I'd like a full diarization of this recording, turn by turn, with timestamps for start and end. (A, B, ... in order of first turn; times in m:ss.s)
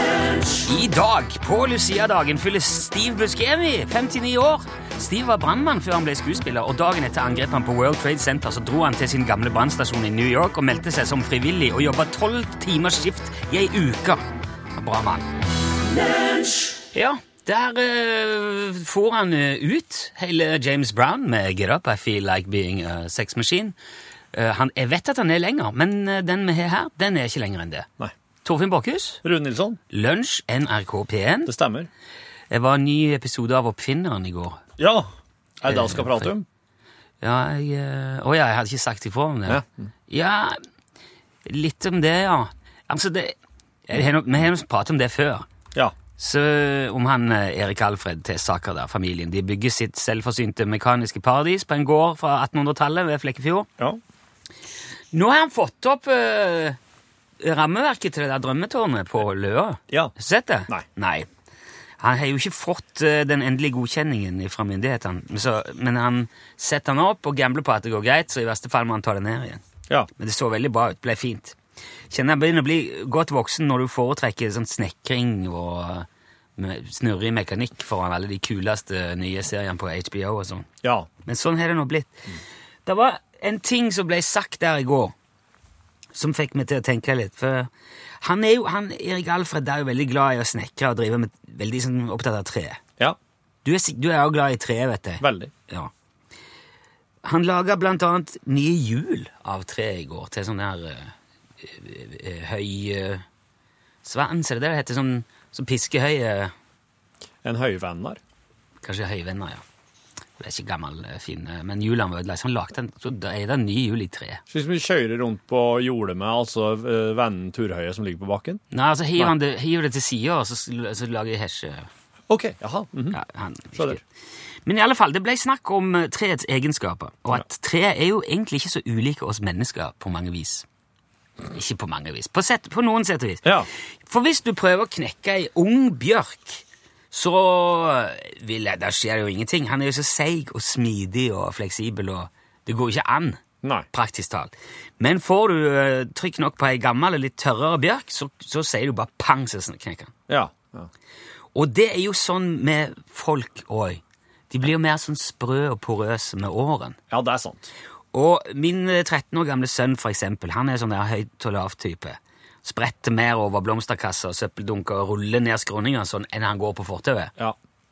0:00.5-0:14.2 A
0:14.8-0:15.3 A
0:16.9-0:23.8 A
0:24.3-0:27.9 A
0:28.4-0:29.2 A
0:29.2-0:29.8 B
0:29.9-0:31.5 A
0:31.4-0:31.9 B
0:32.5-0:34.6 A
0:34.8-0:35.1 B
0:35.6-0:36.4 B
0:35.7-0:36.3 A
0:37.2-0:40.6 A
0:39.5-0:39.9 B
0:41.5-0:43.4 A
0:43.9-0:45.5 A
0:46.2-0:53.7 A
0:55.1-0:56.8 A
0:57.4-1:01.3 A
1:02.0-1:09.6 A
1:10.2-1:11.6 A
1:12.1-1:20.7 A
1:20.8-1:21.1 B
1:21.2-1:25.1 A
1:26.1-1:27.7 A
1:28.2-1:32.8 A
1:33.6-1:35.9 A
1:35.2-1:35.5 B
1:37.2-1:43.2 A
1:44.0-1:46.5 A
1:47.4-1:48.2 B
1:48.8-1:49.6 A
1:50.4-1:54.4 A
1:54.5-1:58.6 B
1:58.7-2:01.9 A
2:02.3-2:03.2 B
2:03.1-2:04.0 A
2:04.7-2:10.7 A
2:11.5-2:23.4 A
2:13.4-2:13.7 B
2:23.9-2:30.1 A
2:30.3-2:30.9 B
2:31.6-2:37.0 A
2:37.1-2:37.7 B
2:38.1-2:47.3 A